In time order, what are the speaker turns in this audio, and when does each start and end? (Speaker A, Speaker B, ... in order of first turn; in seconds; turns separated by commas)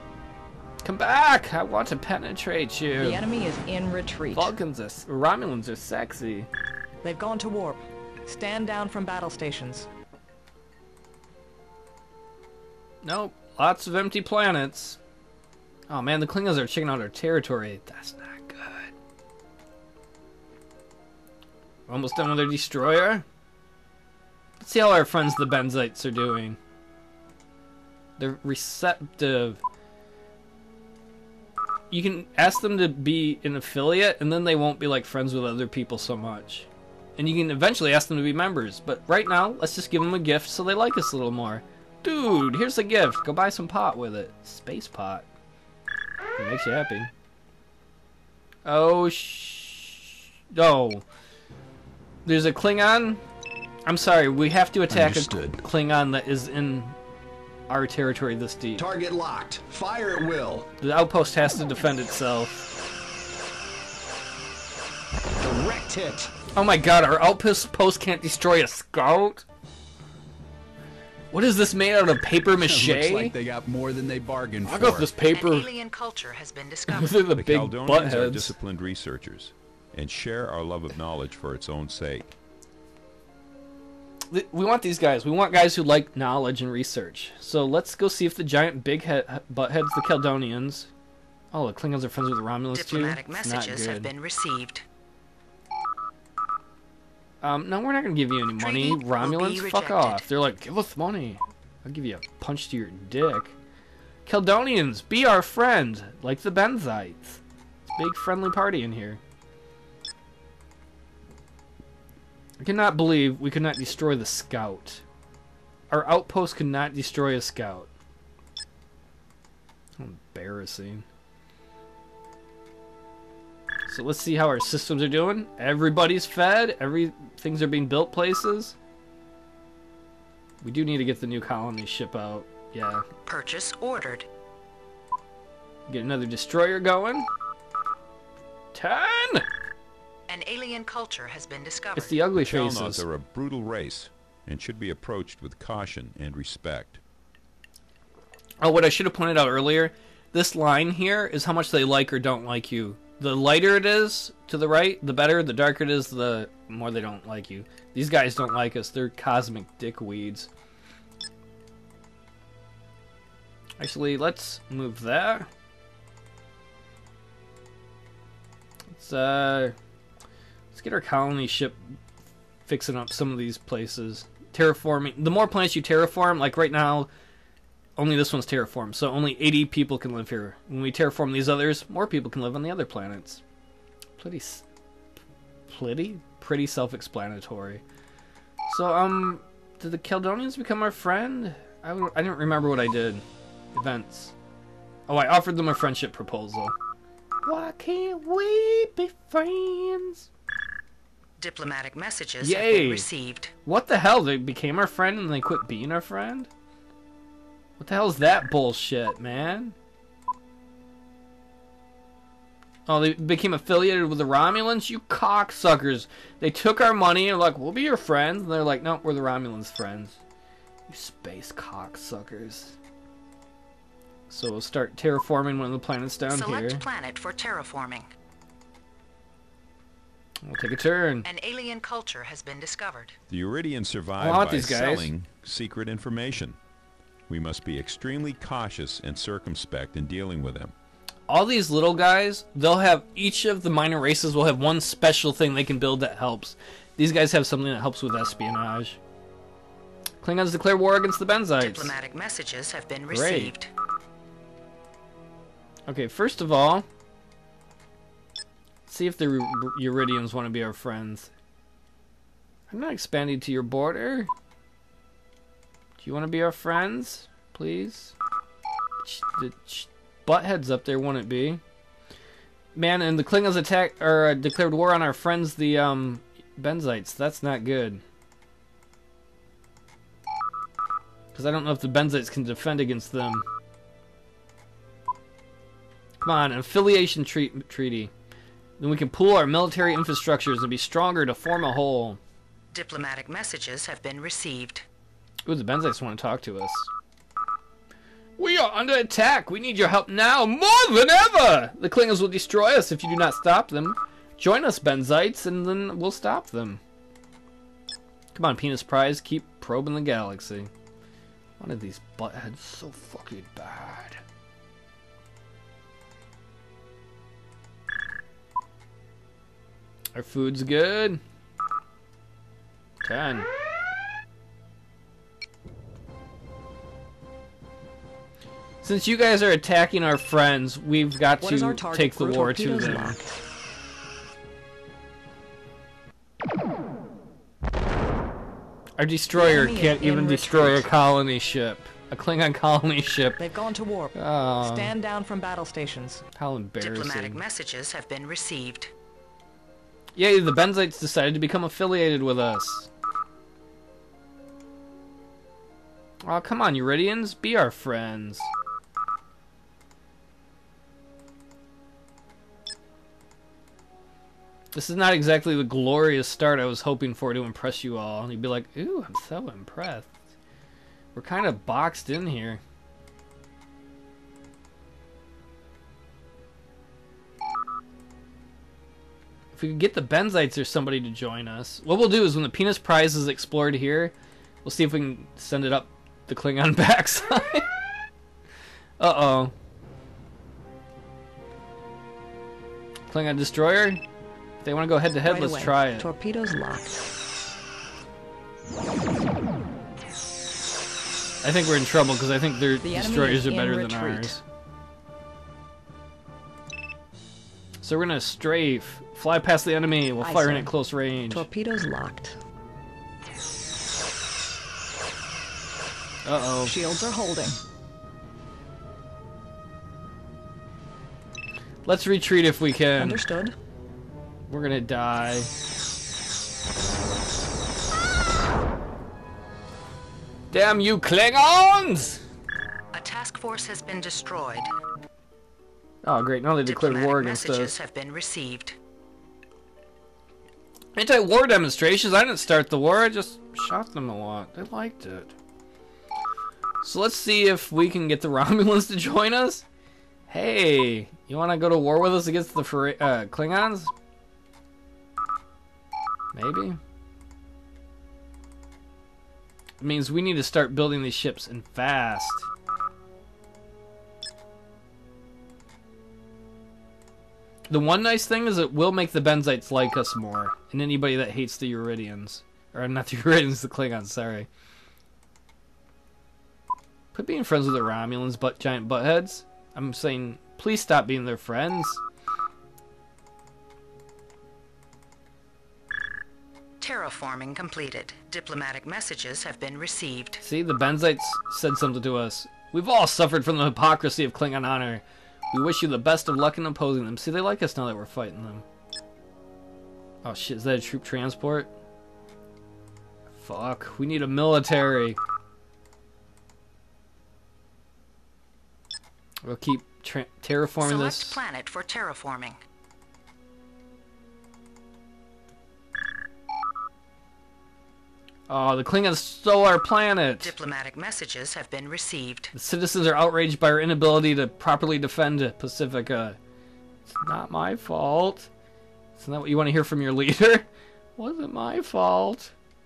Speaker A: 0.8-3.2, Speaker B: 3.0-4.5, Speaker A: 4.3-6.5, Speaker B: 7.0-9.9, Speaker A: 13.0-15.0, Speaker A: 15.9-18.9, Speaker A: 21.9-23.2, Speaker A: 24.6-26.6, Speaker A: 28.2-29.6, Speaker A: 31.9-45.3, Speaker A: 46.4-47.1, Speaker A: 48.6-51.0, Speaker A: 52.2-53.2, Speaker A: 53.9-57.0, Speaker C: 54.9-55.6, Speaker A: 57.7-58.9, Speaker D: 58.8-60.7, Speaker A: 60.8-62.7, Speaker D: 65.4-66.3, Speaker A: 66.5-69.4, Speaker A: 71.3-73.3, Speaker C: 72.5-75.2, Speaker A: 74.6-75.7, Speaker E: 75.2-77.2, Speaker A: 76.9-78.6, Speaker F: 77.3-82.3, Speaker A: 84.3-90.9, Speaker A: 91.5-94.1, Speaker E: 92.7-94.8, Speaker A: 97.4-103.5, Speaker E: 98.6-100.3, Speaker A: 104.3-107.4, Speaker A: 107.9-109.2, Speaker A: 112.6-115.0, Speaker A: 115.9-117.9, Speaker A: 120.0-121.1, Speaker A: 123.9-128.8, Speaker A: 130.6-133.1, Speaker E: 133.3-134.3, Speaker A: 135.9-137.3, Speaker A: 138.7-139.4, Speaker E: 140.3-142.2, Speaker A: 141.9-143.0, Speaker F: 142.3-147.0, Speaker A: 148.6-160.5, Speaker A: 163.8-165.5, Speaker A: 168.9-169.8, Speaker A: 170.7-171.8, Speaker A: 172.7-177.1, Speaker A: 178.0-183.4, Speaker A: 184.2-184.6, Speaker A: 185.7-187.8, Speaker A: 188.7-194.3, Speaker A: 195.1-196.8, Speaker A: 197.4-200.3, Speaker E: 201.4-203.5, Speaker A: 202.4-203.1, Speaker A: 203.6-206.5, Speaker A: 207.8-209.8, Speaker A: 212.9-220.2, Speaker A: 220.9-222.8, Speaker A: 224.3-226.8, Speaker E: 226.3-228.1, Speaker A: 230.4-231.3, Speaker E: 231.2-233.1, Speaker F: 233.3-236.6, Speaker A: 234.2-235.1, Speaker F: 237.3-240.7, Speaker A: 241.3-249.0, Speaker A: 250.2-251.9, Speaker E: 251.6-253.7, Speaker A: 253.1-253.5, Speaker A: 255.9-256.9, Speaker A: 258.9-261.3, Speaker A: 262.7-264.3, Speaker A: 266.0-268.1, Speaker A: 269.0-271.6, Speaker A: 272.8-278.0, Speaker A: 281.3-283.4, Speaker A: 286.2-288.1, Speaker A: 288.8-292.2, Speaker E: 292.7-294.9, Speaker A: 295.4-296.9, Speaker A: 298.4-306.8, Speaker A: 308.3-310.7, Speaker A: 311.6-314.2, Speaker A: 320.1-321.2, Speaker A: 323.0-323.5, Speaker A: 328.8-333.2, Speaker B: 331.4-333.2, Speaker A: 339.0-343.4, Speaker B: 339.3-340.9, Speaker B: 343.4-346.2, Speaker A: 344.1-344.9, Speaker A: 346.4-347.4, Speaker E: 346.8-348.9, Speaker A: 350.1-352.9, Speaker A: 356.2-358.5, Speaker A: 364.7-370.1, Speaker A: 371.1-372.6, Speaker A: 379.5-387.7, Speaker A: 389.0-389.5, Speaker A: 393.1-394.0, Speaker A: 394.6-396.1, Speaker B: 395.2-397.1, Speaker A: 401.4-404.4, Speaker B: 402.8-404.4, Speaker A: 407.8-411.4, Speaker B: 410.2-410.7, Speaker B: 411.3-412.4, Speaker A: 416.2-416.8, Speaker B: 416.6-417.6, Speaker A: 421.9-423.2, Speaker B: 422.9-423.6, Speaker A: 424.5-425.5, Speaker A: 430.5-432.2, Speaker E: 432.9-434.7, Speaker A: 436.0-437.7, Speaker E: 436.6-438.8, Speaker A: 440.9-445.3, Speaker A: 446.8-449.6, Speaker A: 450.3-453.9, Speaker A: 456.3-456.8, Speaker A: 459.8-462.5, Speaker A: 467.7-474.5, Speaker A: 477.1-482.0, Speaker E: 486.8-490.4, Speaker A: 490.4-498.6, Speaker A: 500.2-501.7, Speaker A: 503.4-505.2, Speaker A: 509.4-511.4, Speaker E: 510.8-512.6, Speaker A: 518.5-520.5, Speaker E: 520.4-522.5, Speaker A: 522.5-526.4, Speaker A: 527.1-528.5, Speaker A: 529.1-532.5